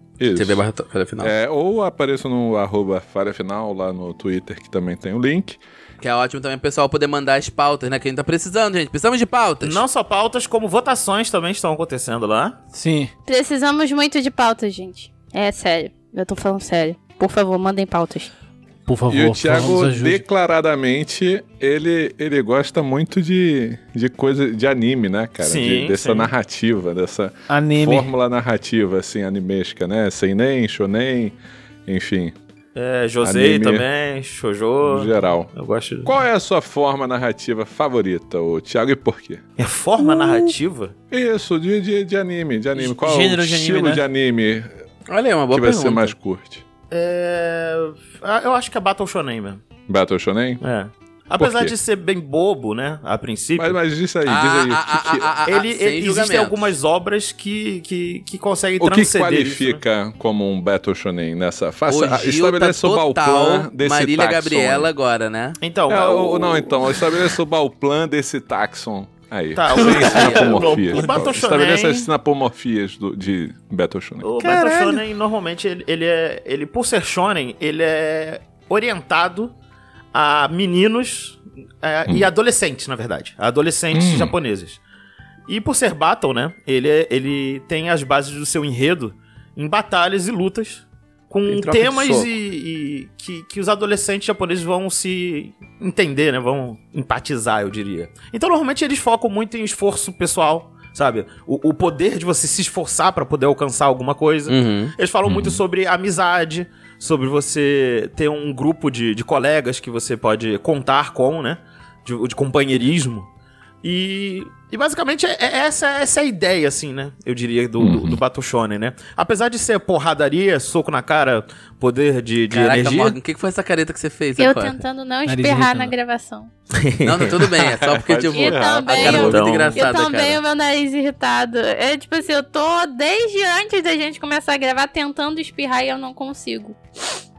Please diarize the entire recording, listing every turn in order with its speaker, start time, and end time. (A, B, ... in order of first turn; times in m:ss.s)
0:00.2-0:00.6 A
0:00.3-0:01.3 B
0:01.2-0:05.6 A
0:06.0-0:09.8 B
0:09.6-0:12.6 C
0:12.7-0:13.1 D
0:13.3-0:18.3 E
0:18.9-0:20.2 D
0:19.1-0:31.3 A
0:25.4-0:26.3 C
0:27.5-0:28.1 D
0:31.8-0:32.3 A
0:32.7-0:36.1 C
0:33.2-0:33.8 A
0:34.8-0:35.5 A
0:36.0-0:39.4 A
0:39.6-0:40.9 C
0:40.0-0:40.4 A
0:41.1-0:44.7 A
0:42.8-0:44.0 D
0:45.1-0:46.1 B
0:45.5-0:46.6 A
0:46.9-0:49.6 C
0:49.9-0:50.6 A
0:50.6-0:53.8 C
0:51.4-0:51.7 A
0:53.6-0:55.3 A
0:54.2-0:56.7 B
0:55.5-0:59.8 C
0:58.8-1:04.9 A
1:01.9-1:05.6 B
1:05.6-1:06.9 C
1:05.9-1:14.6 A
1:09.6-1:12.1 C
1:09.8-1:11.0 D
1:14.2-1:19.5 C
1:14.4-1:15.0 D
1:20.1-1:24.8 C
1:23.9-1:24.3 A
1:25.5-1:53.3 C
1:31.4-1:32.3 B
1:44.5-1:44.9 B
1:45.2-1:45.6 A
1:53.8-2:03.2 C
1:57.8-1:58.2 A
2:02.5-2:04.8 B
2:04.4-2:06.5 E
2:05.2-2:05.9 D
2:06.8-2:07.5 C
2:07.0-2:10.4 B
2:07.7-2:09.6 A
2:08.3-2:17.2 E
2:09.0-2:09.9 C